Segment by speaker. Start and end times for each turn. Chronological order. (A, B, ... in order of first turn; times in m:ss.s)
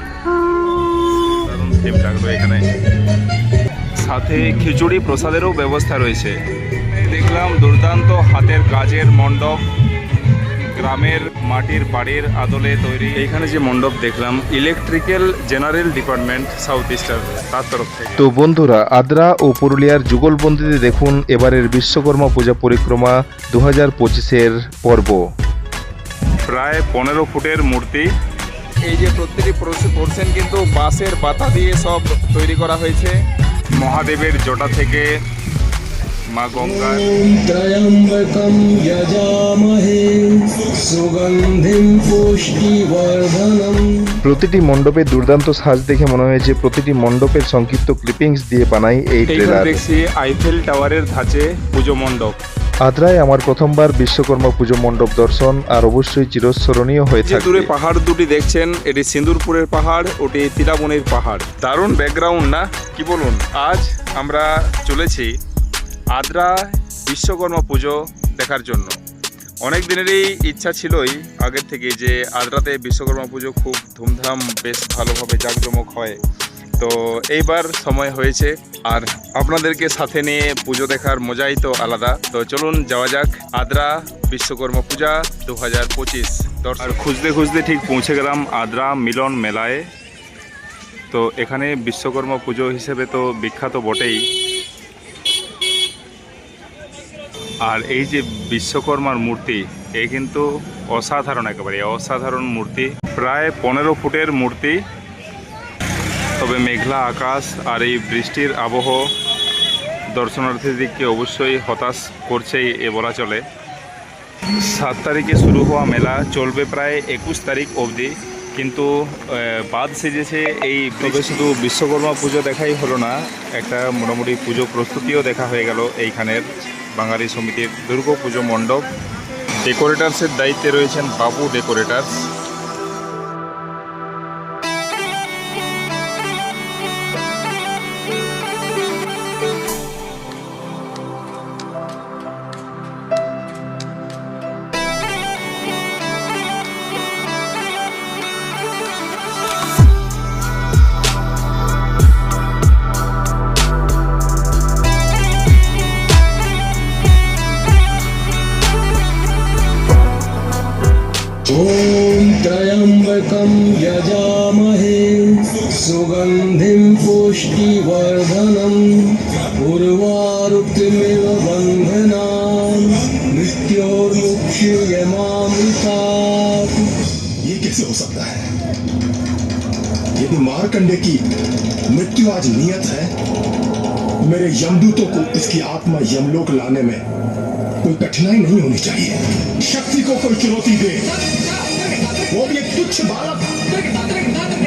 0:01.2-0:02.6 A
0:04.0-0:09.7 A
0:10.7-0:18.3 A
0:18.2-0:25.2 B
0:26.4-0:28.1 A
0:28.8-0:33.2 A
0:33.7-0:35.1 A
0:36.3-0:37.1 A
0:36.6-0:44.2 C
0:44.2-0:49.8 B
0:44.3-0:44.6 A
0:49.3-0:52.4 A
0:52.9-0:57.7 B
0:57.2-1:05.3 A
1:06.1-1:09.0 A
1:09.6-1:16.2 A
1:16.8-1:29.9 A
1:31.1-1:34.3 A
1:37.6-1:44.8 A
1:46.4-1:49.0 A
1:50.1-1:53.4 A
1:54.5-2:08.8 A
2:09.6-2:12.1 A
2:41.5-2:57.1 C
2:57.4-2:58.6 D
3:00.2-3:01.2 D
3:01.9-3:03.2 D
3:04.2-3:07.0 D
3:07.8-3:11.2 D
3:12.2-3:13.7 D